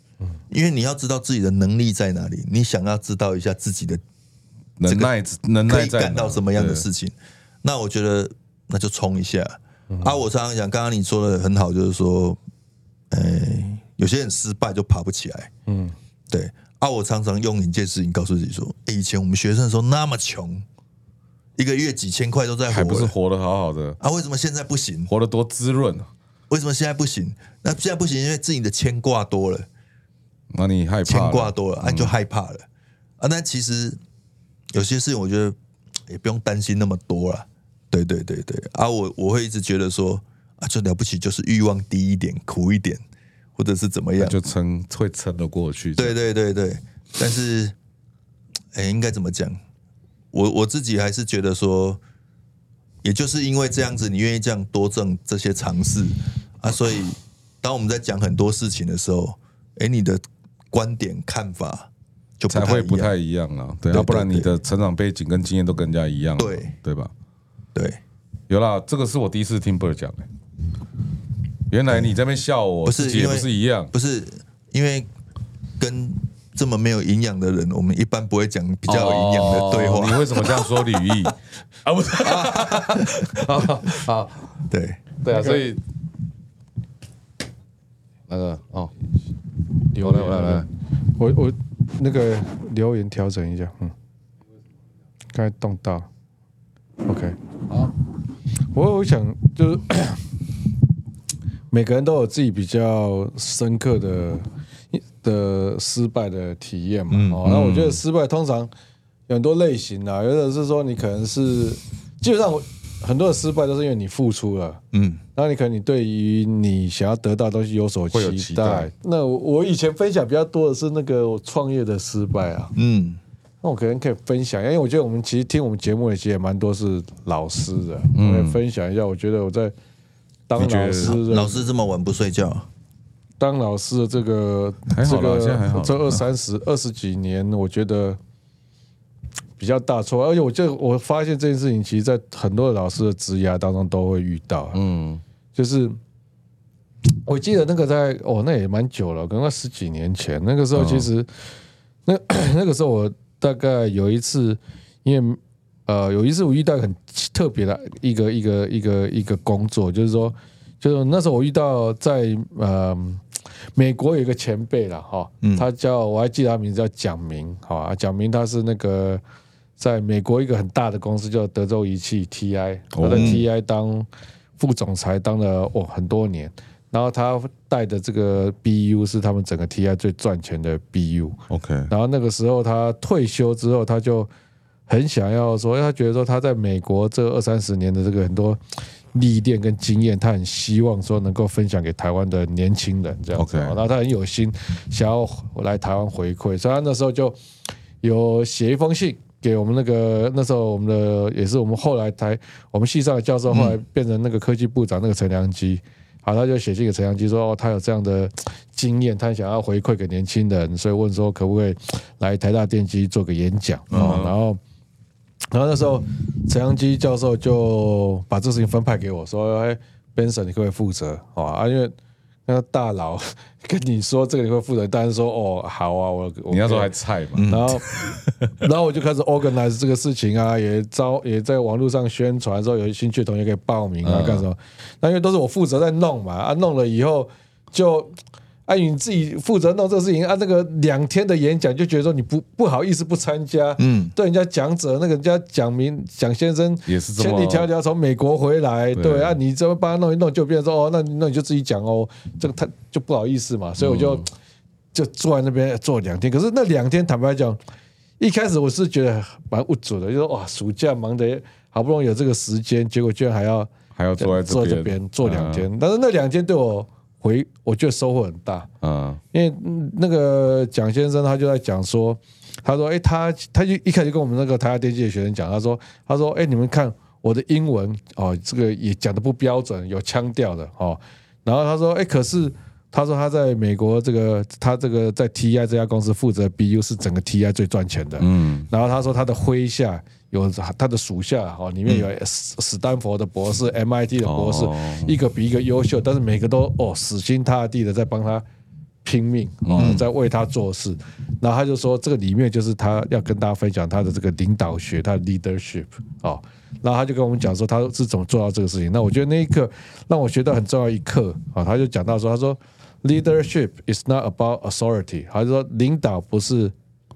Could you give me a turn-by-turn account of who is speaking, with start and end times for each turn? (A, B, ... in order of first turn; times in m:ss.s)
0:00.5-0:04.0 A
0:04.8-0:06.8 B
0:04.8-0:05.1 A
0:05.6-0:12.4 A
0:09.9-0:10.2 C
0:13.1-0:15.5 A
0:15.7-0:15.9 C
0:16.3-0:20.6 A
0:21.6-0:23.1 A
0:22.7-0:24.0 B
0:24.0-0:25.1 A
0:25.1-0:26.1 B
0:26.5-0:29.7 A
0:30.5-0:32.1 B
0:31.0-0:32.6 A
0:33.2-0:34.0 A
0:34.7-0:43.0 A
0:43.6-0:44.4 A
0:44.2-0:46.1 B
0:46.0-0:47.7 A
0:48.7-0:49.6 A
0:50.3-0:52.0 A
0:53.0-1:00.2 A
1:00.7-1:03.1 A
1:02.5-1:07.1 B
1:03.9-1:04.5 A
1:06.4-1:06.7 A
1:07.7-1:08.0 A
1:08.5-1:10.2 B
1:11.7-1:13.9 B
1:12.8-1:15.1 A
1:15.8-1:21.2 A
1:18.9-1:24.5 B
1:22.2-1:23.7 A
1:24.7-1:25.0 A
1:25.2-1:25.8 B
1:25.3-1:25.6 C
1:28.3-1:28.9 B
1:29.9-1:33.9 C
1:30.0-1:30.6 B
1:35.3-1:36.1 C
1:37.0-1:37.9 C
1:38.7-1:40.2 C
1:41.7-1:48.7 C
1:47.1-1:47.9 A
1:47.5-1:47.8 B
1:49.3-1:54.8 C
1:54.9-1:55.2 A
1:55.3-2:02.7 C
1:58.1-1:58.9 B
2:02.8-2:03.2 A
2:03.6-2:09.7 C
2:08.1-2:08.6 B
2:10.5-2:11.6 C
2:10.6-2:11.2 B
2:11.0-2:12.7 A
2:13.4-2:18.2 C
2:14.9-2:16.2 B
2:19.6-2:24.8 C
2:24.7-2:25.2 B
2:25.6-2:26.0 C
2:27.2-2:31.3 C
2:30.7-2:31.1 B
2:32.0-2:43.2 C
2:43.7-2:49.2 C
2:45.4-2:45.7 A
2:49.8-2:54.1 C
2:52.9-2:53.4 B
2:53.1-2:53.4 A
2:54.6-3:01.4 C
3:01.5-3:01.9 B
3:01.9-3:04.3 C
3:04.9-3:08.6 C
3:09.1-3:17.4 C
3:13.4-3:13.8 B
3:18.0-3:34.6 C
3:23.5-3:23.8 A
3:33.9-3:34.3 B
3:33.9-3:34.2 A
3:35.5-3:41.9 C
3:42.5-3:46.9 C
3:46.5-3:47.5 B
3:47.3-3:47.8 A
3:47.4-3:58.1 C
3:54.0-3:54.4 B
3:58.7-4:14.3 C
4:03.8-4:04.1 A
4:06.9-4:07.7 B
4:08.9-4:09.4 B
4:13.8-4:14.2 B
4:14.9-4:17.6 C
4:18.2-4:28.7 C
4:24.0-4:25.6 B
4:28.8-4:29.2 B
4:29.3-4:58.4 C
4:48.2-4:48.7 B
4:54.2-4:55.2 B
4:59.0-5:16.7 C
4:59.6-5:00.0 B
4:59.8-5:00.0 A